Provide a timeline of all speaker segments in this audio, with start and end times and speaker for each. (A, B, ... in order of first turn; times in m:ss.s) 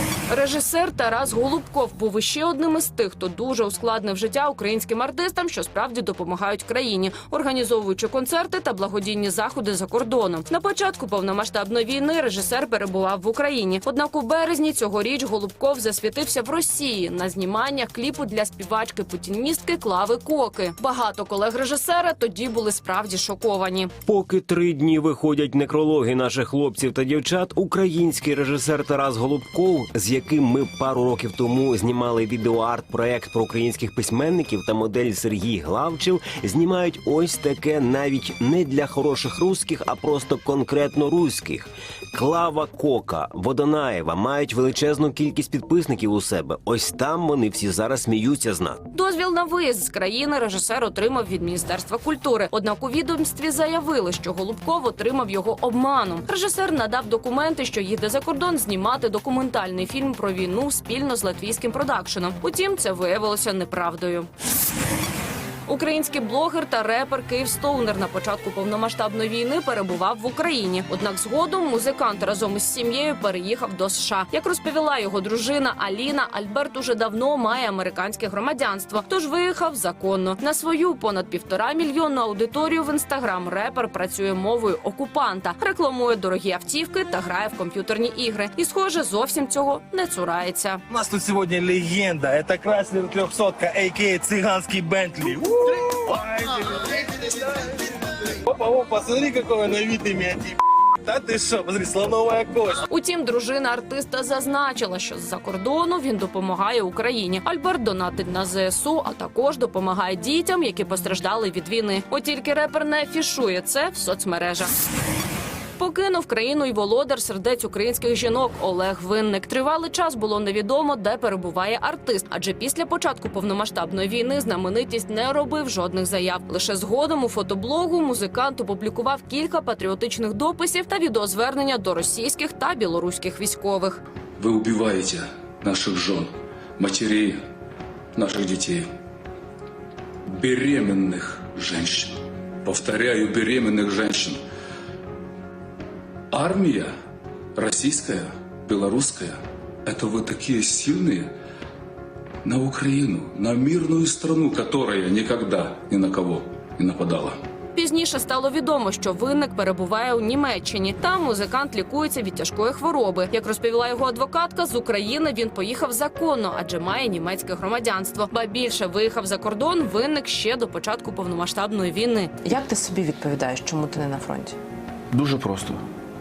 0:00.3-0:23.9 A
0:24.0-0:48.8 B
0:48.9-1:04.3 A
1:05.7-1:30.8 A
1:30.9-1:42.8 C
1:42.9-1:54.7 A
1:55.8-2:14.0 A
2:14.4-2:17.4 D
2:18.2-2:18.8 D
2:20.3-2:24.4 D
2:26.3-2:26.9 D
2:27.6-2:31.3 D
2:32.4-2:37.4 D
2:37.7-2:52.4 A
2:52.4-2:54.6 E
2:55.1-2:55.8 D